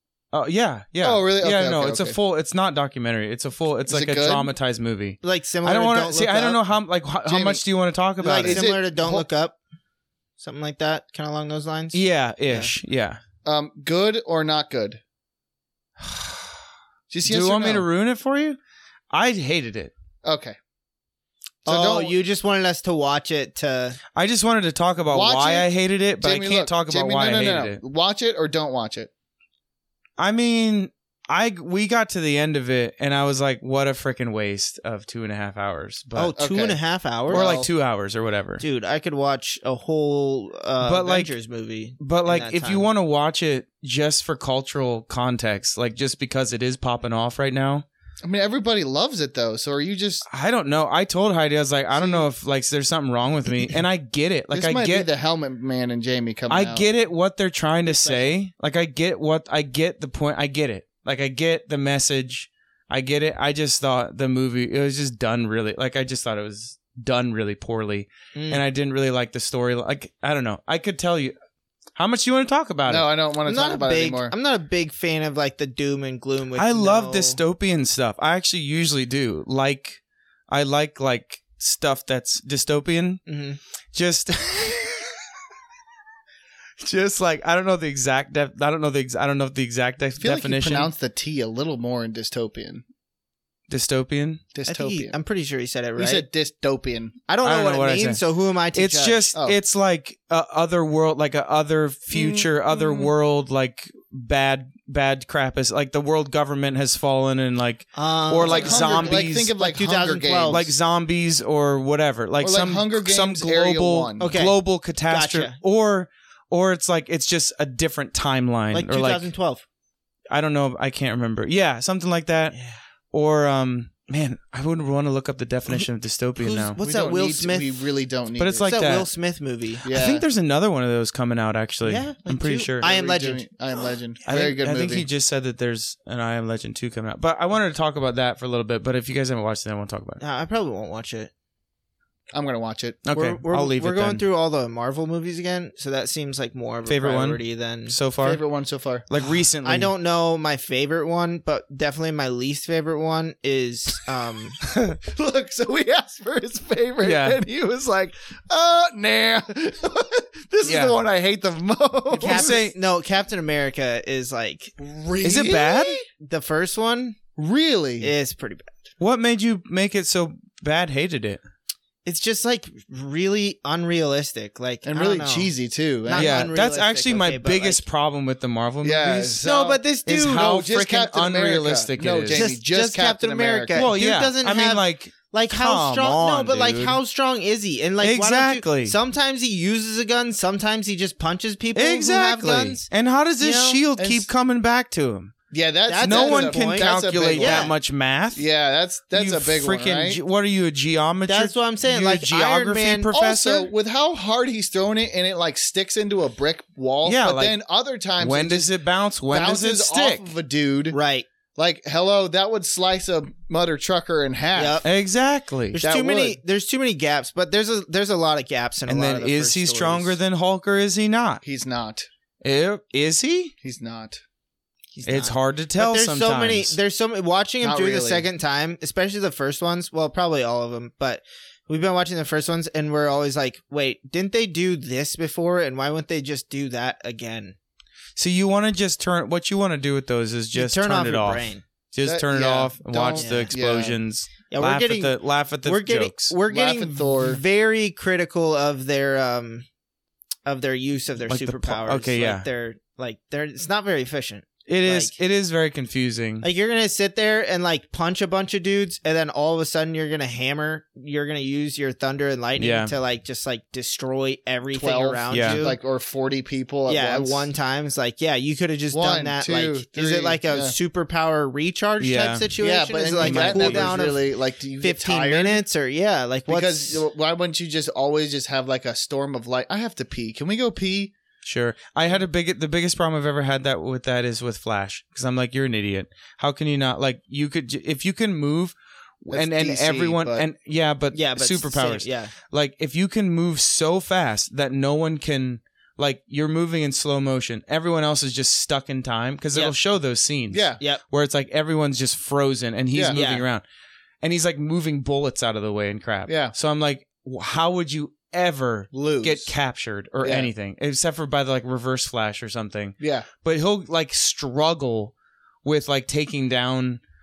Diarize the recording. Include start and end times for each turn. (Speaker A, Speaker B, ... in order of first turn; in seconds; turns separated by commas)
Speaker A: 0.3-8.6, Speaker B: 1.0-2.2, Speaker B: 3.9-4.5, Speaker C: 5.2-6.6, Speaker B: 7.2-7.6, Speaker C: 8.2-9.6, Speaker B: 8.4-9.3, Speaker C: 10.4-12.7, Speaker A: 11.9-13.2, Speaker B: 13.4-15.0, Speaker A: 16.0-16.6, Speaker B: 17.1-17.9, Speaker A: 17.2-18.6, Speaker A: 19.1-19.9, Speaker B: 20.2-20.6, Speaker B: 21.6-22.2, Speaker C: 21.6-24.0, Speaker A: 24.1-27.8, Speaker B: 25.1-29.1, Speaker A: 30.2-36.3, Speaker C: 36.1-37.6, Speaker B: 36.3-37.7, Speaker A: 37.3-38.6, Speaker C: 38.6-42.9, Speaker A: 40.8-41.3, Speaker A: 42.0-47.8, Speaker B: 48.2-50.2, Speaker A: 50.2-55.1, Speaker B: 51.9-52.3, Speaker B: 54.5-56.9, Speaker A: 56.5-71.3, Speaker C: 57.9-58.4, Speaker C: 68.3-68.6, Speaker A: 72.0-73.1, Speaker B: 72.9-74.3, Speaker C: 73.5-77.4, Speaker A: 76.5-83.2, Speaker C: 83.3-83.6, Speaker A: 83.9-85.2, Speaker A: 86.8-90.9, Speaker B: 90.2-92.8, Speaker A: 93.7-94.4, Speaker B: 94.5-95.2, Speaker C: 94.7-96.2, Speaker B: 96.0-97.2, Speaker C: 97.3-99.3, Speaker A: 97.4-98.2, Speaker A: 98.7-109.5, Speaker B: 102.1-103.1, Speaker C: 107.9-110.7, Speaker B: 108.3-110.7, Speaker A: 110.5-119.3, Speaker B: 112.4-114.3, Speaker C: 114.2-115.6, Speaker C: 118.7-119.6, Speaker A: 120.3-122.5, Speaker C: 122.5-122.8, Speaker A: 123.1-126.8, Speaker C: 126.4-127.8, Speaker B: 126.8-128.8, Speaker A: 128.4-129.1, Speaker C: 128.6-129.9, Speaker B: 129.8-130.2, Speaker A: 129.9-132.9, Speaker C: 131.8-133.5, Speaker B: 132.8-135.1, Speaker A: 134.2-140.2, Speaker C: 140.2-141.3, Speaker B: 142.3-143.0, Speaker A: 143.0-144.2, Speaker C: 143.1-148.0, Speaker A: 146.8-148.4, Speaker B: 148.2-149.1, Speaker A: 149.1-149.9, Speaker C: 149.6-154.6, Speaker B: 155.0-162.6, Speaker A: 157.0-157.4, Speaker A: 160.6-161.0, Speaker C: 162.1-164.7, Speaker A: 162.2-162.8, Speaker B: 164.8-166.0, Speaker A: 165.2-166.0, Speaker C: 166.2-167.2, Speaker B: 167.4-168.1, Speaker C: 168.0-168.9, Speaker A: 169.0-171.4, Speaker C: 172.0-175.5, Speaker B: 174.8-176.5, Speaker C: 176.1-177.8, Speaker A: 176.2-182.5, Speaker B: 178.8-183.9, Speaker C: 179.4-180.4, Speaker C: 182.3-192.9, Speaker A: 183.7-187.0, Speaker A: 188.0-189.0, Speaker A: 191.7-195.3, Speaker C: 193.4-193.8, Speaker B: 193.9-194.3, Speaker B: 195.5-197.7, Speaker C: 195.9-197.7, Speaker A: 196.0-198.4, Speaker B: 198.3-200.2, Speaker A: 199.1-203.7, Speaker C: 201.3-203.1, Speaker B: 203.1-208.7, Speaker A: 207.0-207.6, Speaker A: 208.2-210.3, Speaker B: 209.3-211.0, Speaker C: 210.9-211.3, Speaker B: 211.5-214.8, Speaker C: 214.5-214.9, Speaker A: 214.8-215.8, Speaker C: 215.7-220.2, Speaker B: 215.8-216.4, Speaker A: 218.9-221.4, Speaker B: 221.4-222.1, Speaker A: 222.4-223.5, Speaker B: 223.6-224.2, Speaker C: 224.9-237.6, Speaker A: 225.0-226.8, Speaker B: 227.6-228.2, Speaker A: 238.2-246.3, Speaker C: 240.5-241.6, Speaker B: 242.0-244.0, Speaker C: 243.1-243.5, Speaker C: 244.5-249.7, Speaker B: 246.5-247.4, Speaker C: 250.4-255.1, Speaker A: 251.3-252.5, Speaker A: 254.7-256.5, Speaker C: 256.4-265.8, Speaker A: 262.6-262.9, Speaker B: 264.7-267.5, Speaker A: 265.3-265.6, Speaker C: 266.9-277.0, Speaker B: 268.9-270.7, Speaker A: 272.0-272.5, Speaker B: 272.6-275.6, Speaker A: 273.2-273.9, Speaker B: 276.5-281.1, Speaker A: 281.4-303.6, Speaker B: 289.3-290.5, Speaker C: 291.1-292.3, Speaker B: 300.5-300.8, Speaker B: 302.9-303.2, Speaker C: 303.1-303.4, Speaker A: 304.2-315.1, Speaker B: 306.3-306.5, Speaker B: 308.9-309.5, Speaker B: 310.2-310.5, Speaker B: 313.0-313.3, Speaker A: 315.6-317.0